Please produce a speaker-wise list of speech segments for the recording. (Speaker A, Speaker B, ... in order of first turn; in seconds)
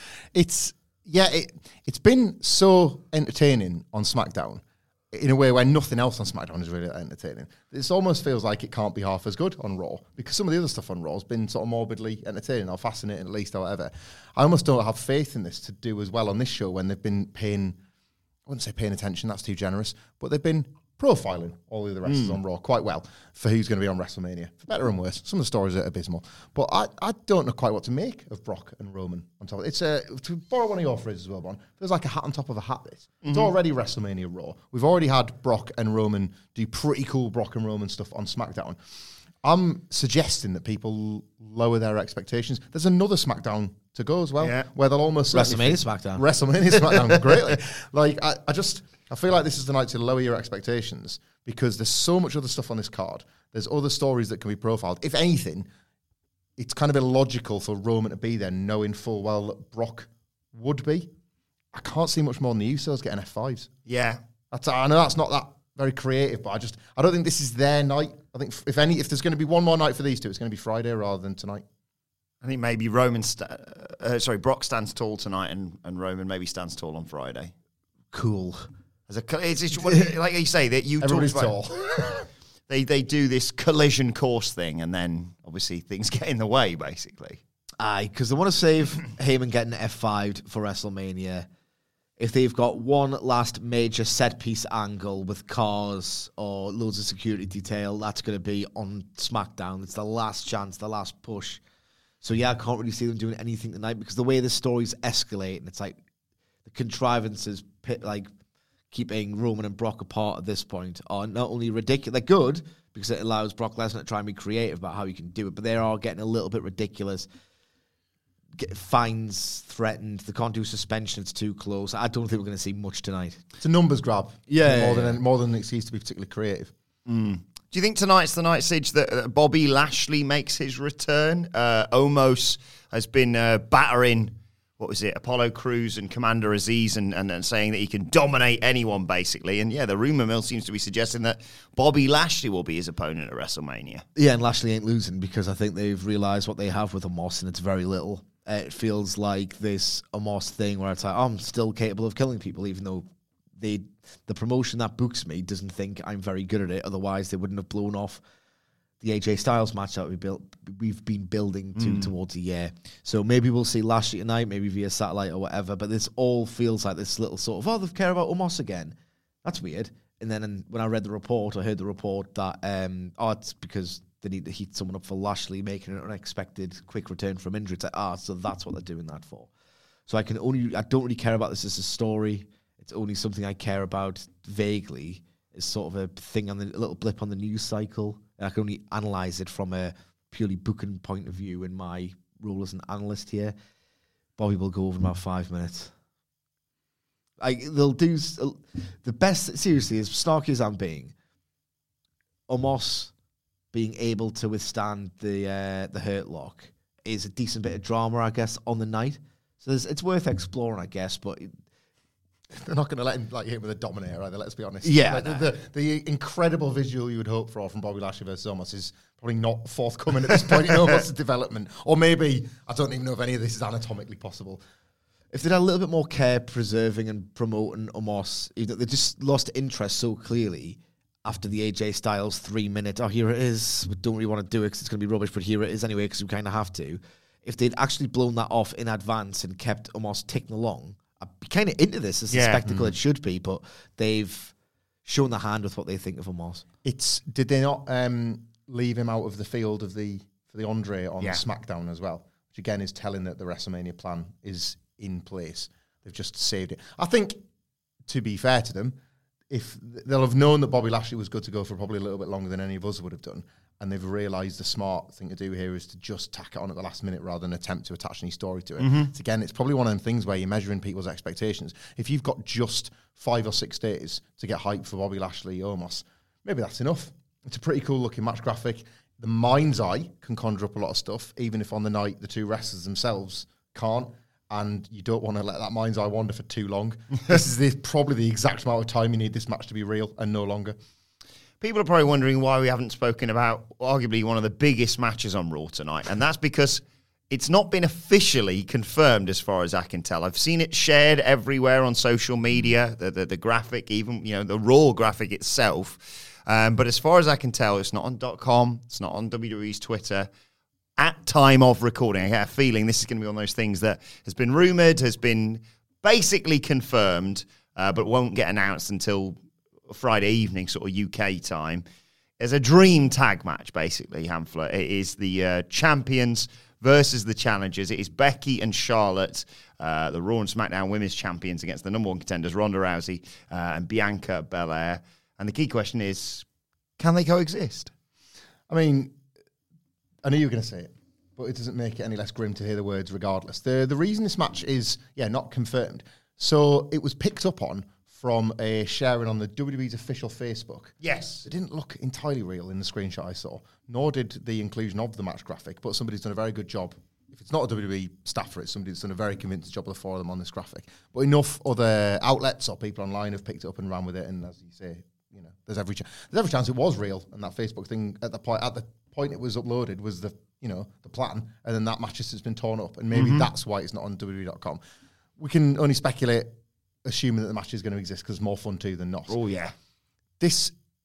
Speaker A: 0.3-17.8, 18.5-38.8, 39.4-55.7, 56.6-61.1, 61.7-63.7, 64.5-71.6, 81.0-82.1, 123.6-126.7, 212.5-224.6, 242.7-242.9, 246.8-257.4, 258.1-259.0, 259.5-290.8, 338.7-339.2, 340.2-374.8, 375.4-379.4, 380.4-380.7
Speaker B: 22.1-22.4, 33.2-33.5, 44.4-44.7, 63.9-64.2, 72.4-77.5, 79.1-82.1, 82.7-87.4, 127.1-144.0, 161.8-162.1, 220.5-220.9, 242.3-242.6, 268.8-269.1, 291.6-310.3, 311.0-319.4, 319.9-321.8, 322.4-336.5, 337.0-337.9, 351.0-351.4, 373.1-373.5, 379.3-379.7
Speaker C: 45.3-46.2, 78.1-78.7, 87.8-91.5, 92.2-101.6, 102.2-106.0, 106.7-108.3, 108.9-117.3, 118.6-123.4, 124.5-125.2, 144.2-153.1, 153.6-158.2, 159.0-179.5, 180.1-193.6, 194.4-195.9, 197.4-201.1, 202.5-203.1, 203.7-211.5, 214.8-215.5, 225.3-244.5, 245.1-246.6